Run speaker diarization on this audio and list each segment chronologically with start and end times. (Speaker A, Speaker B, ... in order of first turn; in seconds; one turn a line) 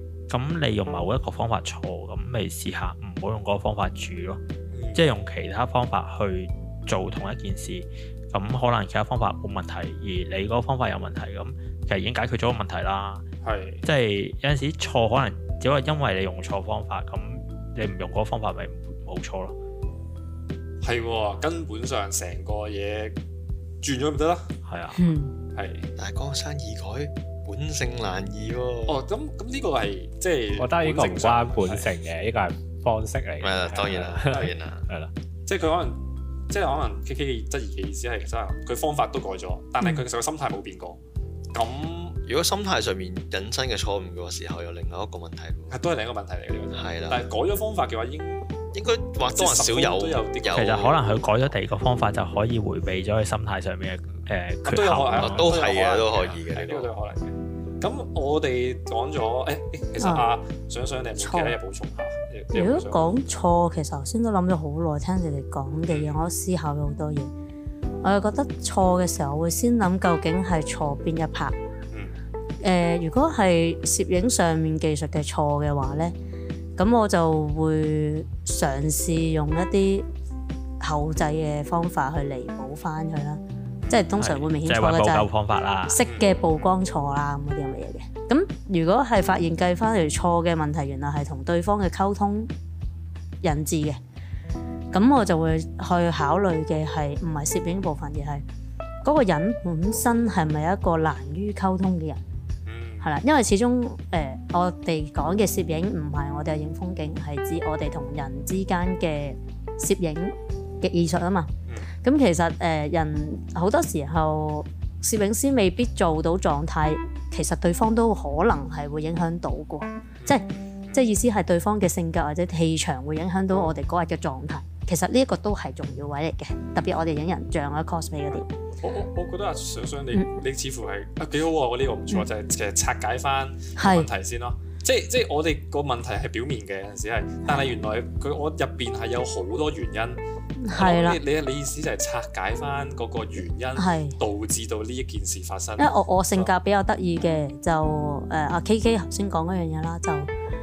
Speaker A: 0.3-4.4
Speaker B: 4.7-5.1
Speaker A: 4.9-13.2
Speaker B: 13.4-13.8
Speaker A: 13.8-19.6
Speaker B: 20.8-23.1
Speaker B: 23.8-24.5
Speaker A: 24.6-25.0
Speaker C: 25.0-25.4
Speaker B: 25.6-25.9
Speaker D: 26.0-29.0
Speaker B: 28.9-31.9
Speaker E: 30.6-35.1
Speaker D: 33.4-34.9
Speaker B: 33.7-34.5
Speaker B: 35.5-41.0
Speaker B: 41.5-42.2
Speaker D: 42.2-45.8
Speaker B: 45.7-48.5
Speaker D: 46.7-47.2
Speaker D: 48.7-51.2
Speaker B: 49.3-50.8
Speaker A: 50.5-55.4
Speaker B: 54.6-63.1
Speaker D: 55.2-56.9
Speaker C: 60.0-60.2
Speaker C: 61.2-61.5
Speaker C: 62.5-67.3
Speaker B: 65.9-66.2
Speaker C: 68.0-71.5
Speaker B: 71.9-72.2
Speaker C: 72.6-76.1
Speaker C: 76.8-80.1
Speaker C: 80.8-85.3
Speaker A: 84.2-86.0
Speaker C: 85.9-92.5
Speaker B: 86.0-86.8
Speaker C: 93.4-94.0
Speaker C: 94.9-98.4
Speaker C: 99.0-102.2
Speaker B: 102.7-103.1
Speaker C: 103.0-111.5
Speaker C: 112.0-128.4
Speaker B: 120.2-121.1
Speaker B: 128.4-146.5
Speaker C: 133.8-134.1
Speaker C: 137.4-137.7
Speaker C: 140.6-141.2
Speaker C: 143.8-144.2
Speaker C: 145.8-150.3